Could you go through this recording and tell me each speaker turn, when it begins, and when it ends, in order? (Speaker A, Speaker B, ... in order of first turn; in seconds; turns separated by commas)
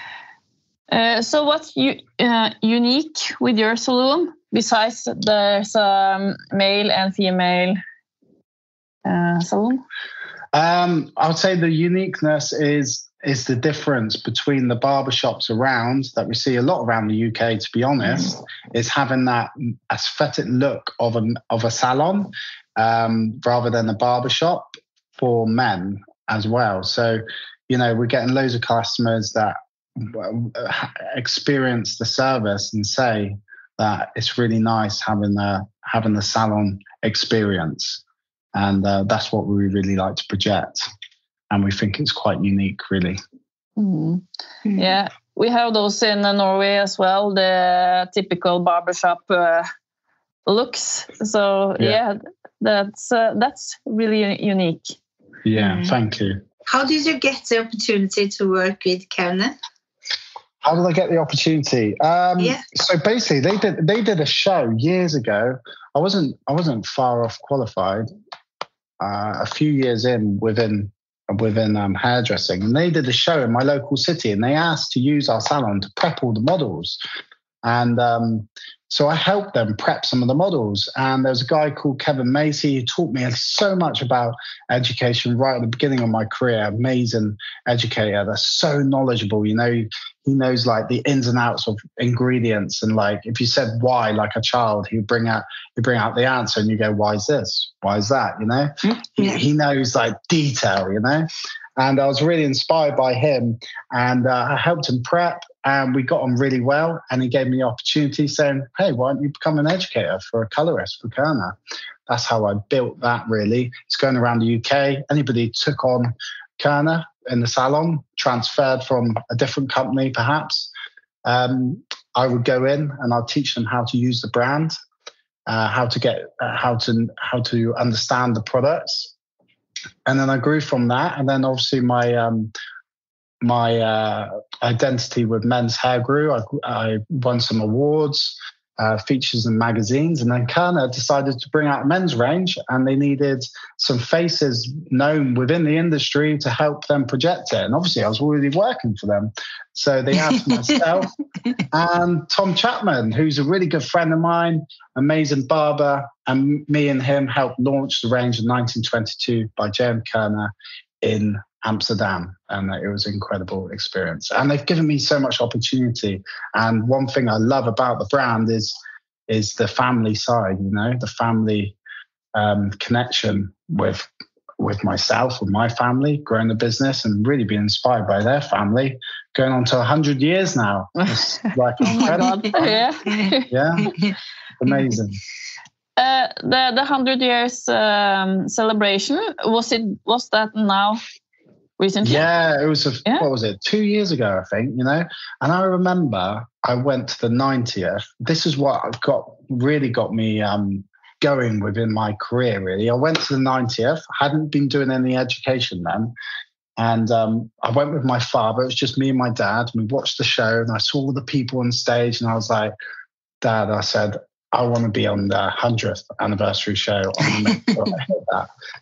Speaker A: 0.9-7.8, Speaker A: 9.1-9.8, Speaker B: 10.5-38.0, Speaker B: 38.5-40.9, Speaker B: 41.5-43.2, Speaker A: 43.8-44.2, Speaker C: 44.6-44.9, Speaker A: 44.8-49.7, Speaker A: 50.5-55.0, Speaker B: 55.5-56.4, Speaker C: 55.6-55.9, Speaker C: 56.7-59.6, Speaker B: 60.6-68.1, Speaker B: 69.0-77.0, Speaker B: 77.6-111.6, Speaker C: 98.8-99.4, Speaker B: 112.1-120.7, Speaker B: 121.2-124.8, Speaker B: 125.5-129.1, Speaker B: 130.1-132.5, Speaker B: 133.4-151.1, Speaker C: 150.3-150.8, Speaker B: 151.7-168.8, Speaker B: 169.3-171.8, Speaker B: 172.3-182.8, Speaker A: 181.8-183.5, Speaker C: 183.1-184.1, Speaker B: 183.5-183.9, Speaker B: 184.6-185.2, Speaker A: 186.0-191.0, Speaker A: 191.8-192.2, Speaker B: 192.0-206.1, Speaker B: 206.8-212.7, Speaker B: 213.4-218.5